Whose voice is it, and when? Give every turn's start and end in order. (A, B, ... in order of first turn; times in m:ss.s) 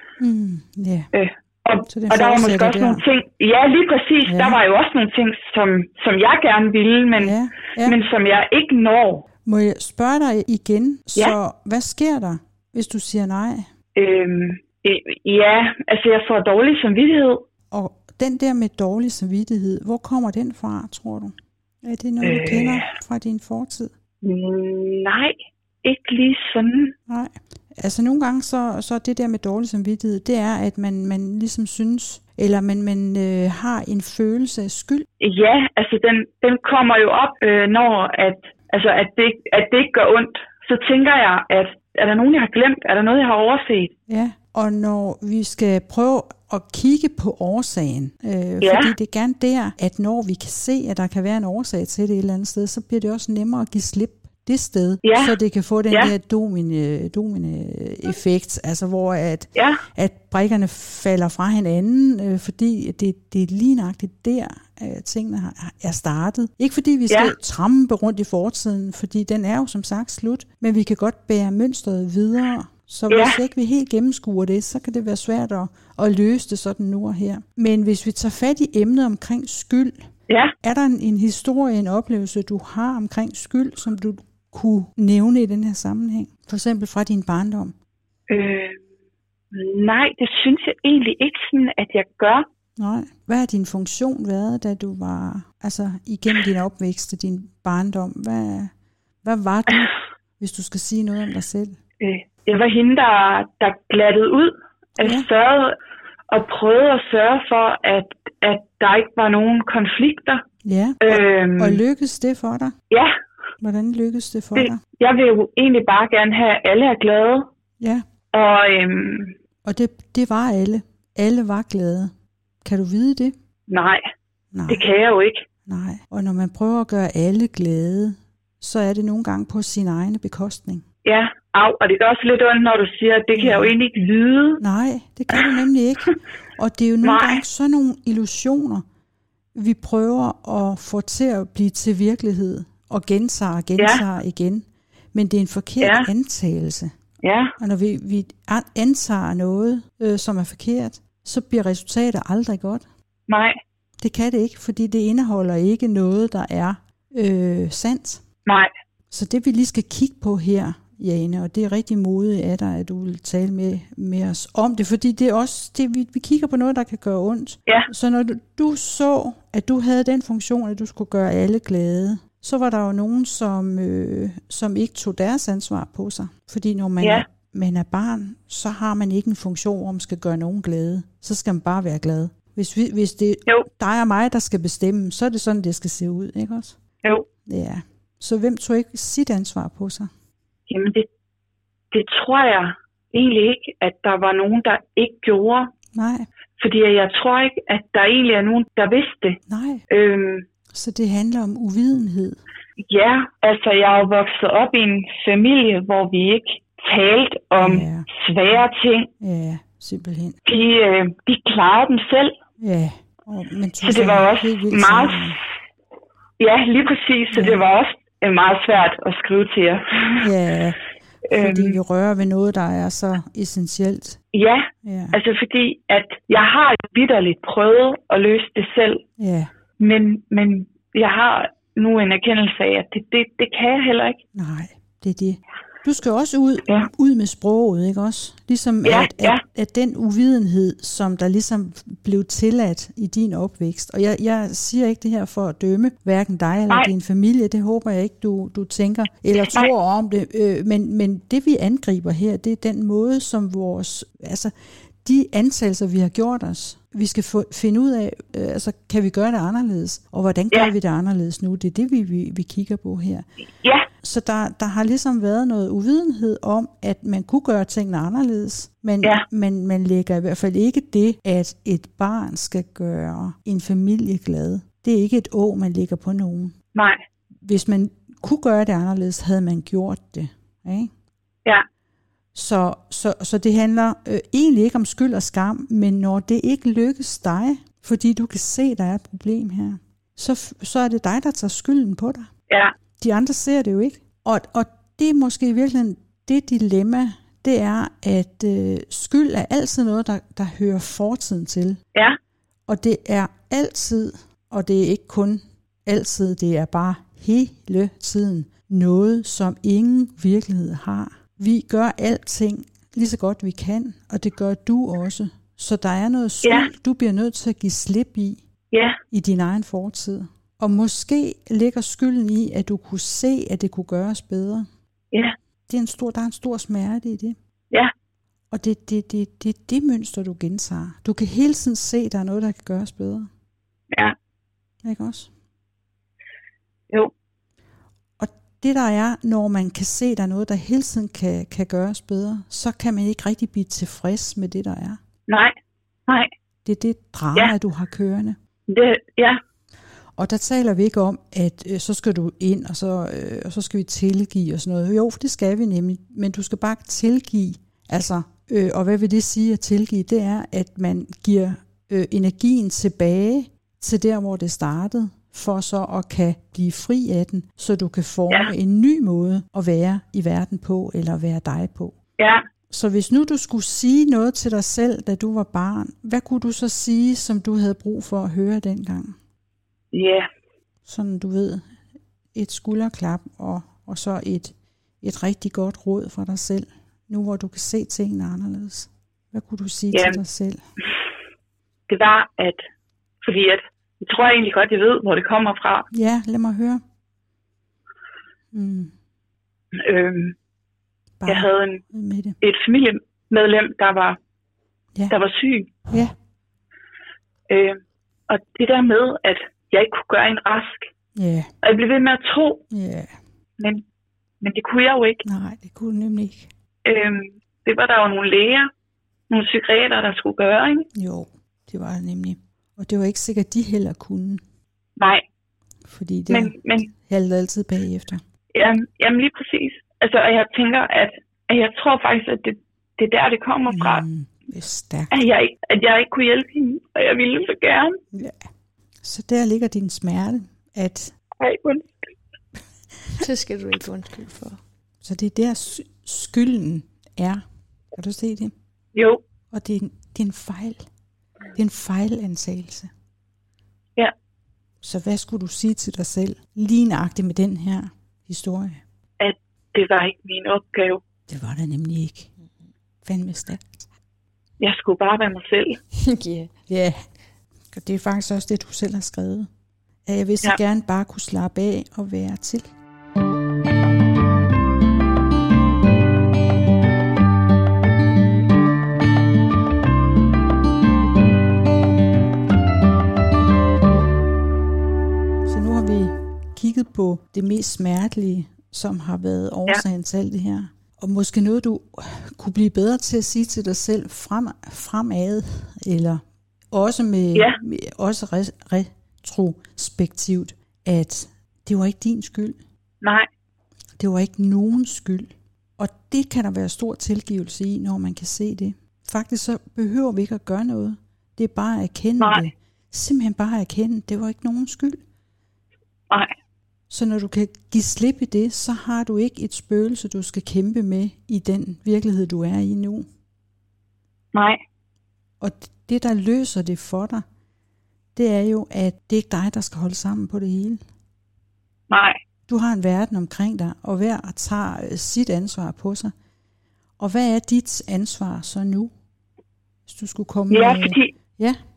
0:00.2-0:01.1 A
0:01.1-0:09.2 B
0:01.9-0:03.0 A
0:04.2-0:04.6 A
0:07.2-0:08.0 A
0:09.4-0:13.7 A
0:14.0-0:17.4 B
0:17.7-0:23.9 A
0:22.2-0:22.9 B
0:24.2-0:26.9 B
0:27.1-0:35.0 A
0:35.2-0:43.9 B
0:44.1-1:20.1 A
0:48.6-0:48.9 B
0:55.0-0:55.3 B
0:59.6-0:59.8 B
1:13.1-1:13.4 B
1:20.3-1:20.5 B
1:20.6-1:27.7 A
1:28.3-1:28.8 B
1:29.5-1:32.4 B
1:32.8-1:41.8 A
1:42.0-1:45.8 B
1:45.0-1:45.3 A
1:46.3-1:50.4 B
1:50.6-1:52.7 A
1:51.0-1:51.8 B
1:52.9-1:53.2 B
1:53.6-1:54.8 A
1:54.6-1:57.5 B
1:58.3-1:59.3 B
1:59.6-2:02.1 A
2:02.6-2:03.3 A
2:03.7-2:04.0 B
2:04.5-2:04.8 A
2:04.7-2:05.4 B
2:05.6-2:10.8 A
2:11.0-2:14.6 B
2:13.3-2:13.7 A
2:14.6-2:18.8 A
2:17.0-2:17.4 B
2:19.5-2:26.9 A
2:23.8-2:24.0 B
2:25.8-2:26.1 B
2:27.2-2:27.5 B
2:27.6-2:32.8 A
2:33.3-2:33.6 B
2:34.0-2:38.2 A
2:39.1-3:06.8 A
3:07.4-3:10.1 A
3:10.7-3:11.1 B
3:11.9-3:15.7 B
3:15.9-3:16.3 A
3:16.6-3:20.4 B
3:19.5-3:19.8 A
3:20.7-3:22.4 A
3:22.9-3:29.1 B
3:27.6-3:28.1 A
3:29.2-3:30.4 A
3:30.4-3:32.3 B
3:32.6-3:35.4 A
3:33.8-3:35.4 B
3:36.4-3:40.3 B
3:37.3-3:37.7 A
3:40.2-3:40.8 A
3:41.3-3:41.8 B
3:41.3-3:44.2 A
3:44.3-3:49.0 B
3:44.8-3:45.2 A
3:49.2-3:49.5 A
3:49.8-3:54.2 B
3:54.3-4:23.2 A
3:58.8-3:59.4 B
4:24.0-4:36.5 A
4:36.7-4:37.0 B
4:37.4-4:40.9 A
4:42.3-4:52.3 A
4:52.5-4:52.7 B
4:53.0-5:01.8 A
5:02.7-5:18.4 A
5:16.4-5:16.7 B
5:18.7-5:19.0 B
5:19.1-5:24.7 A
5:25.7-5:27.4 A
5:28.5-5:33.3 A
5:34.8-5:35.3 A
5:38.2-5:45.0 A
5:45.3-5:45.5 B
5:46.6-5:48.4 A
5:48.7-5:49.4 B
5:50.2-6:12.0 A
6:12.2-6:12.4 B
6:12.7-6:19.2 A
6:19.9-6:20.3 B
6:20.8-6:21.7 A
6:22.3-6:30.6 A
6:29.9-6:30.2 B
6:31.9-6:32.6 B
6:33.2-6:35.9 B
6:35.9-6:36.8 A
6:38.5-6:38.9 A
6:39.8-6:40.3 B
6:41.2-6:42.4 A
6:41.2-6:41.8 B
6:42.4-6:44.2 B
6:45.1-6:45.7 B
6:45.9-6:46.1 A
6:47.5-6:50.9 B
6:51.2-6:51.5 A
6:51.6-6:52.6 B
6:52.7-6:53.1 A
6:54.4-6:55.2 B
6:55.2-6:56.5 A
6:56.8-6:58.7 B
6:59.3-7:00.9 B
7:00.9-7:04.4 A
7:05.0-7:05.2 B
7:05.9-7:08.2 A
7:06.3-7:06.9 B
7:08.5-7:14.0 B
7:13.7-7:15.2 A
7:15.1-7:18.0 B
7:18.1-7:18.4 A
7:19.0-7:21.1 A
7:21.4-7:21.9 B
7:23.1-7:24.6 C
7:25.0-7:28.5 A
7:28.9-7:29.2 B
7:29.5-7:30.9 A
7:31.5-7:32.9 A
7:34.8-7:38.8 A
7:39.2-7:41.0 B
7:41.3-7:42.3 A
7:43.0-7:43.9 A
7:44.6-7:45.8 B
7:45.9-7:46.5 C
7:46.7-7:47.0 A
7:47.7-7:49.5 A
7:50.0-7:52.7 A
8:05.4-8:22.6 A
8:23.0-8:23.3 B
8:24.0-8:35.0 A
8:32.2-8:32.4 B
8:36.9-8:43.0 A
8:44.3-8:44.6 B
8:45.4-8:47.2 A
8:48.1-8:50.8 A
8:51.9-8:52.2 B
8:52.5-8:56.1 A
8:57.0-8:58.9 A
8:59.9-9:01.6 A
9:00.5-9:01.1 B